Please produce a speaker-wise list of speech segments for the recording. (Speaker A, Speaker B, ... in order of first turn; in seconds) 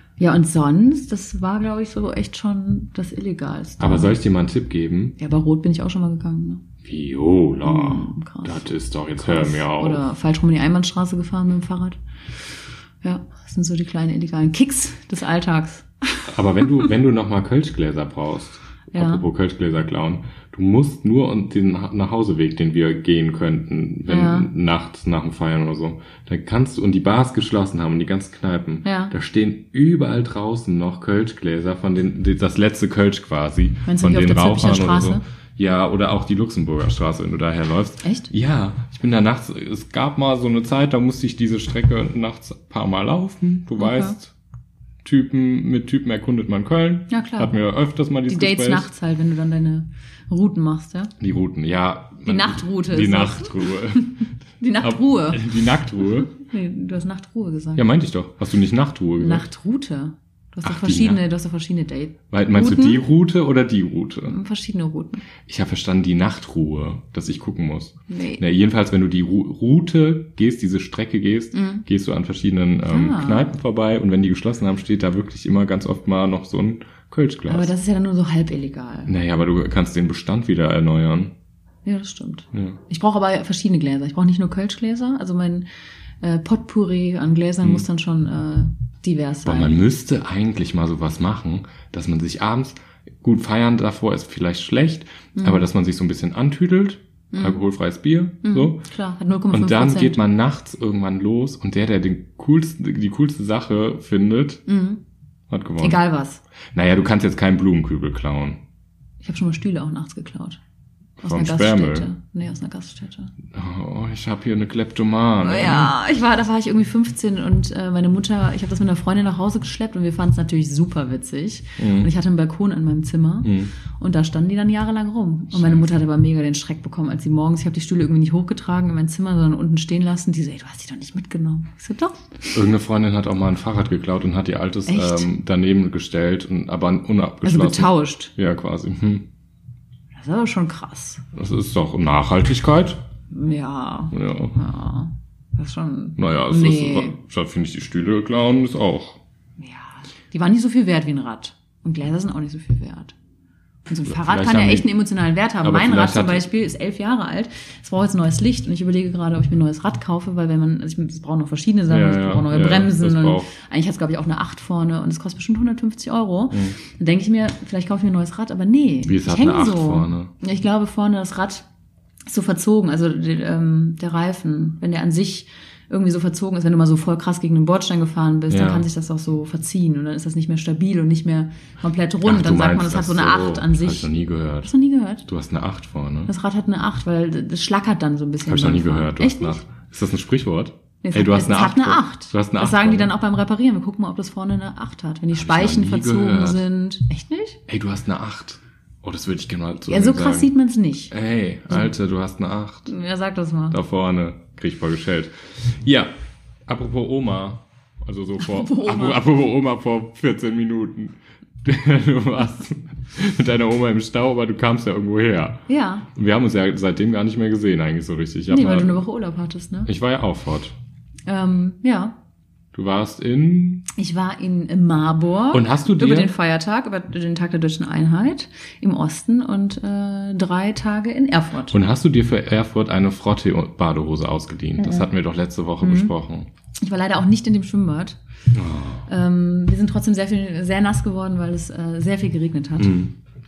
Speaker A: 0.2-4.2, 5.2-6.6, 7.6-8.7, 9.2-12.0, 13.0-16.3, 18.9-19.2, 24.1-24.5, 28.8-29.1, 33.9-35.2, 38.0-38.3, 43.8-44.2, 47.1-47.5, 48.3-51.1, 52.2-55.5, 56.3-57.9, 59.2-63.0, 64.3-65.2, 68.1-68.4, 71.5-71.8, 72.8-73.5, 77.5-79.1, 81.8-85.7, 86.2-89.8, 95.4-95.7, 97.3-97.6, 98.4-100.2, 104.7-105.0, 105.8-106.4, 109.2-110.6, 111.2-113.3, 115.4-132.6, 134.9-135.3, 137.4-138.3, 140.2-141.2, 143.3-147.2, 149.6-153.1, 153.9-171.7, 172.3-184.1, 184.6-185.3, 186.3-189.6, 191.0-197.6, 199.9-201.1, 202.9-203.8, 208.4-209.2, 215.7-216.1, 218.5-219.9, 221.3-222.2, 223.9-231.8, 234.8-235.1, 235.8-236.1, 236.8-238.2, 239.1-243.0
Speaker B: 3.8-5.2, 6.8-10.1, 16.3-44.3, 45.0-48.9, 51.2-54.2, 54.8-56.3, 57.8-59.5, 60.6-61.2, 62.3-64.3, 65.5-77.7, 79.1-81.3, 82.5-82.8, 89.5-98.8, 99.5-104.6, 105.5-106.0, 106.7-108.6, 111.2-112.1, 113.5-115.9, 121.8-122.1, 123.4-123.7, 125.5-126.0, 132.6-139.3, 141.3-143.0, 144.1-144.6, 146.2-149.2, 154.1-154.9, 155.6-156.5, 161.9-163.5, 169.1-170.3, 178.5-178.9, 182.2-184.7, 185.3-186.3, 188.4-193.1, 195.3-196.7, 197.7-200.5, 201.1-202.9, 203.7-206.1, 206.7-219.0, 219.9-220.8, 222.7-223.9, 225.5-226.3, 231.7-236.5, 238.5-239.1, 242.8-243.1